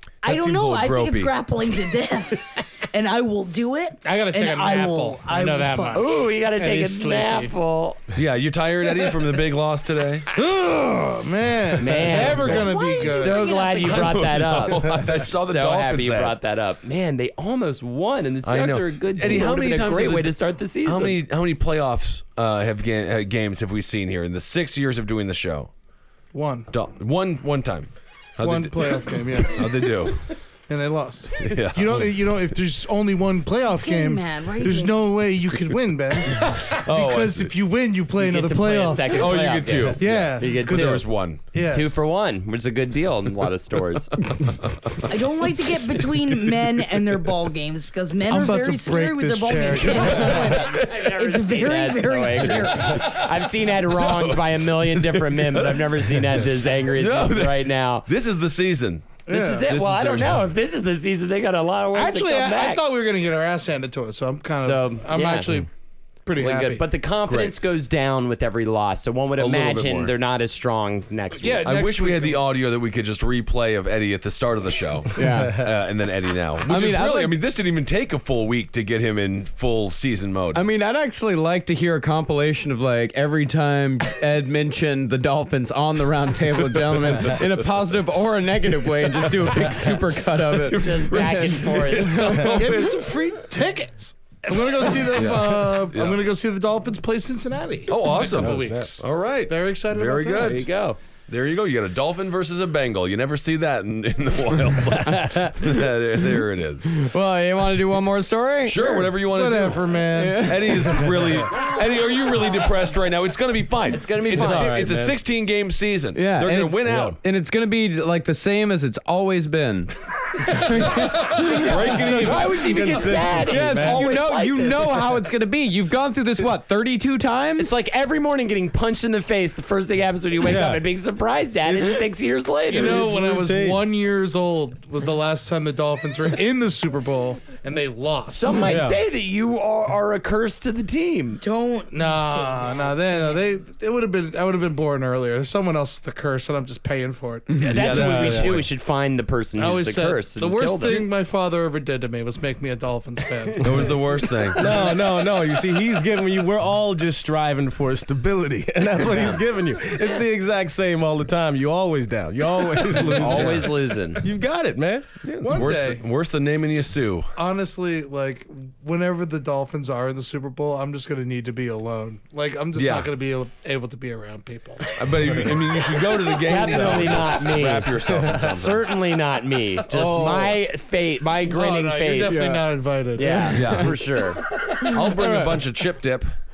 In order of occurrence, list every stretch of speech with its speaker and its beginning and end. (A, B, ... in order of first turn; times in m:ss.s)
0:00.2-0:06.0 A
0:00.2-0:01.3 B
0:04.0-0:07.5 C
0:05.9-0:08.0 D
0:08.1-0:10.2 B
0:10.3-0:13.6 C
0:11.8-0:21.2 D
0:12.4-0:14.4 A
0:13.8-0:16.4 B
0:18.4-0:25.7 B
0:26.3-0:26.7 C
0:26.7-0:30.3 B
0:28.4-0:39.4 C
0:31.4-0:32.2 B
0:33.6-0:35.0 A
0:36.3-0:37.6 B
0:38.2-0:44.2 D
0:39.1-0:41.5 B
0:40.0-0:42.1 C
0:44.4-0:45.0 B
0:45.1-0:53.2 A
0:48.3-0:50.5 C
0:50.0-0:51.0 B
0:50.0-0:58.1 D
0:52.8-1:00.5 B
0:59.2-0:59.7 C
0:59.3-1:02.8 D
1:01.9-1:05.7 C
1:04.5-1:05.6 D
1:06.2-1:06.8 C
1:06.4-1:11.7 D
1:07.2-1:07.5 B
1:09.4-1:10.1 B
1:11.3-1:12.4 C
1:11.6-1:20.6 B
1:15.1-1:15.7 E
1:16.7-1:17.4 E
1:20.5-1:32.5 E
1:30.6-1:32.9 B
1:30.7-1:32.5 D
1:32.5-1:40.6 C
1:35.1-1:36.2 B
1:37.9-1:40.7 B
1:38.3-1:38.9 F
1:40.4-1:41.0 D
1:41.3-1:47.0 B
1:45.0-1:45.8 E
1:46.9-1:48.9 E
1:48.6-1:57.2 B
1:49.2-1:50.5 C
1:50.1-1:51.0 E
1:53.9-1:55.0 D
1:54.3-1:55.2 F
1:56.1-2:02.4 E
2:01.4-2:02.9 B
2:01.5-2:05.0 D
2:01.9-2:04.1 F
2:03.4-2:07.8 E
2:07.6-2:13.1 D
2:10.4-2:10.8 F
2:11.7-2:12.0 F
2:12.7-2:18.8 C
2:12.8-2:13.9 F
2:18.3-2:21.4 D
2:18.6-2:19.0 F
2:21.4-2:22.5 A
2:21.9-2:27.6 C
2:27.6-2:28.7 B
2:27.7-2:31.1 D
2:27.8-2:28.6 F
2:29.6-2:34.0 C
2:33.6-2:34.8 B
2:34.6-2:34.9 C
2:34.6-2:45.1 F
2:39.0-2:39.4 D
2:43.1-2:44.2 D
2:45.2-2:47.3 B
2:45.4-2:46.0 C
2:47.4-2:55.5 C
2:52.7-2:53.1 B
2:55.0-2:58.9 B
2:56.4-3:02.5 D
2:59.9-3:00.6 E
3:01.4-3:03.8 C
3:02.2-3:02.6 E
3:03.2-3:04.4 D
3:03.5-3:04.0 B
3:04.8-3:06.3 B
3:04.9-3:05.6 E